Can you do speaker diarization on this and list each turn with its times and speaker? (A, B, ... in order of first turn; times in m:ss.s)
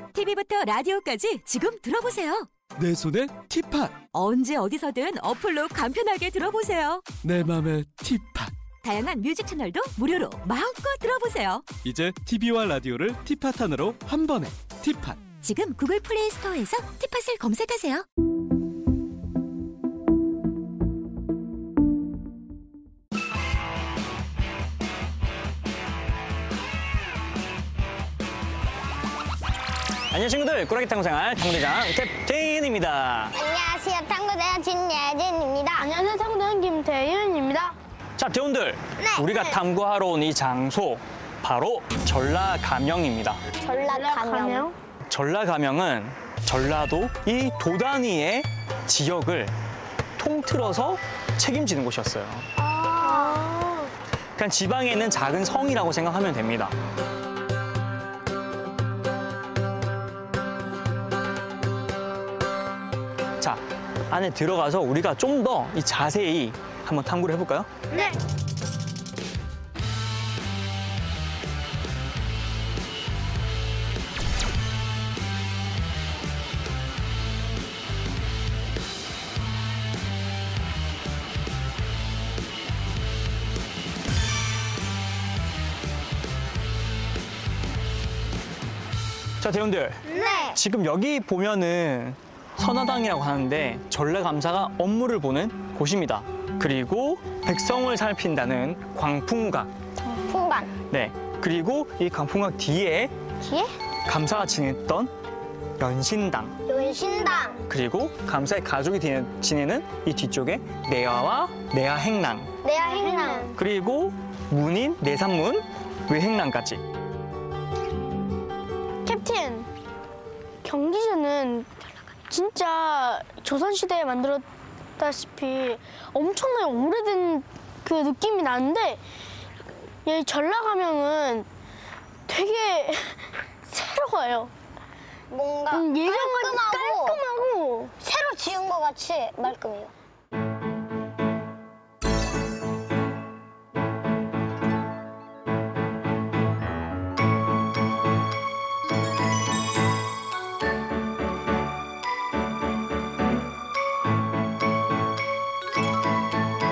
0:00.1-0:02.5 A
0:02.8-0:04.1 B
0:04.1-0:07.1 A
0:07.2-0:08.5 B
0:08.8-0:11.7 A
0:11.8-0:15.4 B
0:15.3-0:18.0 A
0:30.1-0:33.3 C
0:33.3-0:35.9 D
0:35.8-0:37.7 E
0:38.2-0:43.4 C
0:39.0-0:39.6 D
0:43.6-0:44.7 D
0:43.8-0:44.7 E
0:45.1-0:49.6 C
0:50.2-0:52.5 C
0:52.6-0:53.5 D
0:53.0-0:53.9 E
0:54.4-0:56.7 C
1:03.4-1:07.7 C
1:29.4-1:39.7 C
1:30.1-1:30.6 D
1:40.2-1:40.8 D
1:40.9-1:43.1 C
1:43.4-1:43.7 D
1:44.1-1:45.1 C
1:45.8-1:46.6 C
1:46.7-1:47.6 D
1:47.7-1:52.5 C
1:52.6-1:53.5 D
1:52.9-1:53.6 E
1:53.6-1:56.8 C
1:59.1-1:59.7 E
2:00.6-2:01.7 E
2:02.3-2:04.5 E
2:05.0-2:09.0 E
2:10.0-2:11.5 E
2:12.3-2:14.5 E
2:15.3-2:17.2 D
2:15.7-2:17.9 E
2:18.0-2:19.9 D